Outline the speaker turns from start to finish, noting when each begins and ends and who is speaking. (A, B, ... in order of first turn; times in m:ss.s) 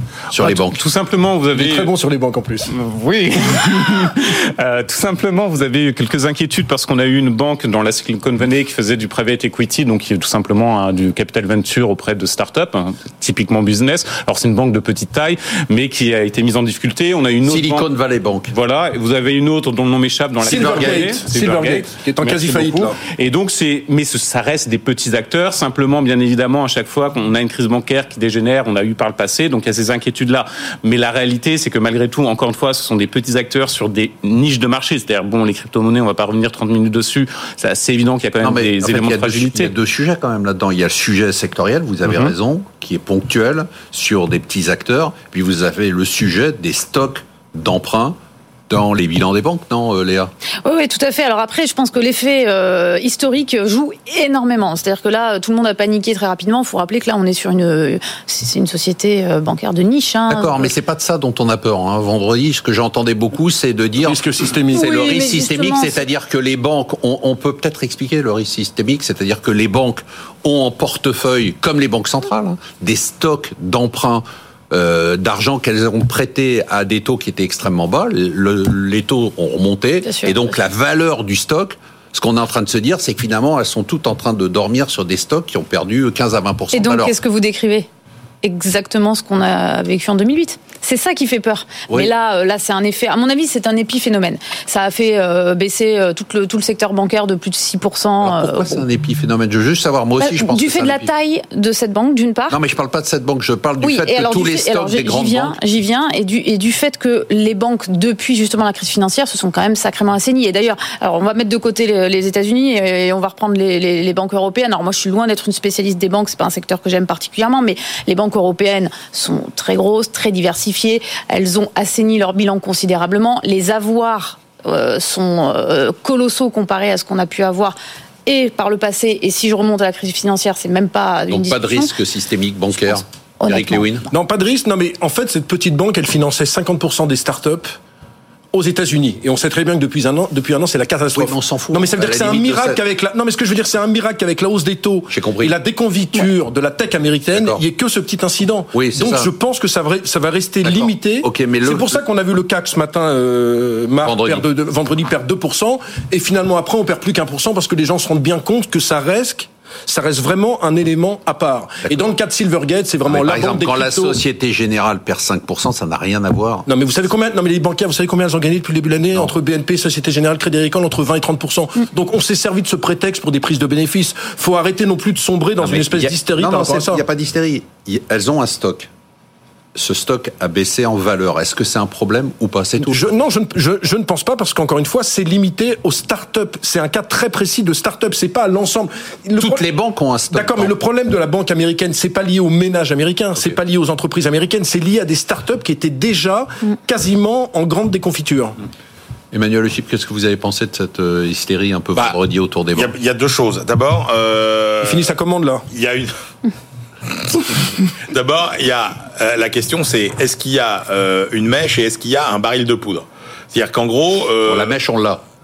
0:00.3-0:00.8 A
0:00.4-0:01.9 B
0:01.5-0:02.7 C
0:02.7-0:17.9 B
0:17.4-0:18.5 A
0:18.5-0:39.7 B
0:20.4-0:23.0 C
0:20.6-0:21.0 A
0:38.4-0:48.2 A
0:42.0-0:42.3 B
0:48.7-0:50.3 A
0:50.6-1:00.6 D
1:00.3-1:04.2 A
1:04.0-1:04.9 C
1:04.7-1:06.0 D
1:04.7-1:27.2 A
1:20.0-1:20.5 D
1:26.7-1:27.9 D
1:28.4-1:38.8 D
1:38.2-1:41.1 A
1:40.2-1:42.6 D
1:42.5-1:45.6 A
1:43.8-2:12.0 D
2:11.3-2:14.1 A
2:12.9-2:13.9 D
2:14.1-2:17.7 C
2:18.5-2:44.2 C
2:21.1-2:22.8 A
2:25.1-2:25.6 A
2:27.3-2:27.6 A
2:28.7-2:29.3 A
2:30.6-2:32.0 A
2:34.0-2:34.4 A
2:43.1-2:46.7 A
2:46.7-2:57.0 C
2:55.6-2:58.9 A
2:59.8-3:03.1 A
3:02.8-3:09.6 C
3:09.4-3:10.7 A
3:10.3-3:18.6 C
3:19.3-3:22.9 A
3:22.7-3:25.1 E
3:24.8-3:25.6 C
3:25.7-3:26.1 E
3:27.1-3:34.8 E
3:34.4-3:35.2 A